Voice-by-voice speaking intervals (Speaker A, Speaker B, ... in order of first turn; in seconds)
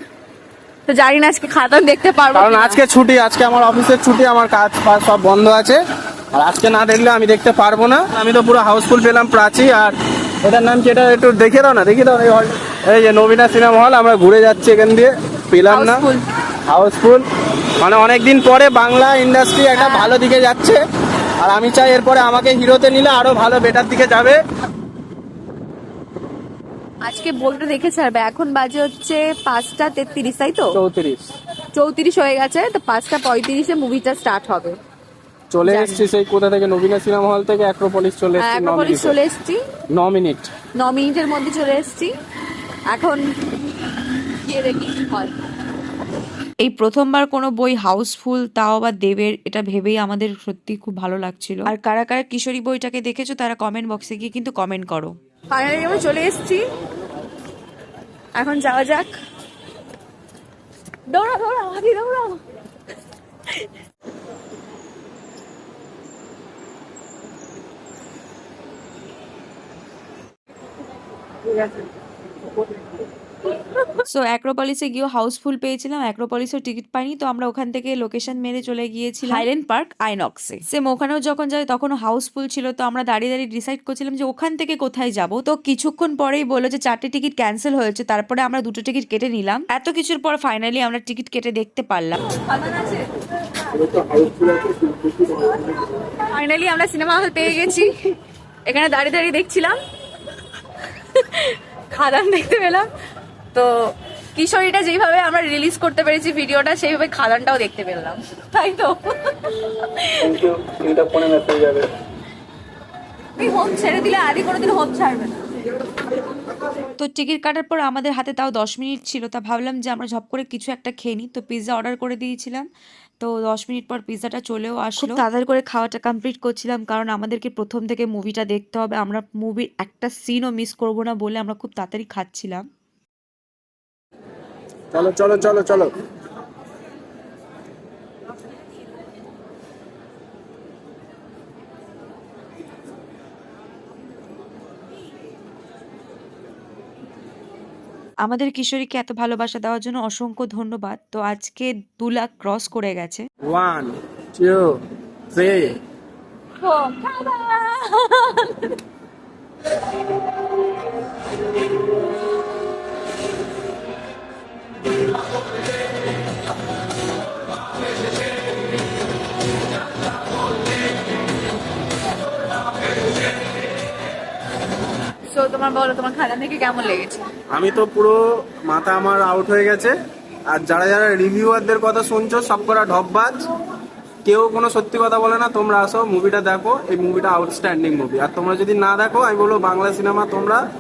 Speaker A: 0.9-2.8, 15.7-16.2, 19.7-20.1, 27.0-30.8, 31.7-34.8, 35.6-36.0, 38.4-39.6, 40.8-42.1, 42.9-43.2, 44.4-45.3, 55.5-56.6, 58.4-59.1, 61.1-62.4, 92.4-93.1, 96.0-98.1, 98.7-99.8, 101.1-102.9, 103.5-110.2, 113.4-115.3, 156.6-158.7, 175.3-177.3
Speaker B: 2.3-5.8, 6.3-16.0, 16.7-17.2, 17.8-20.8, 21.4-24.4, 30.7-31.3, 35.5-39.2, 39.9-40.5, 94.2-94.7, 110.2-111.9, 134.9-135.9, 153.4-154.8, 155.3-155.8, 177.5-179.9, 180.5-183.4, 184.2-190.6
Speaker C: 46.6-55.1, 74.0-92.2, 117.0-122.7, 123.2-132.7, 148.2-153.3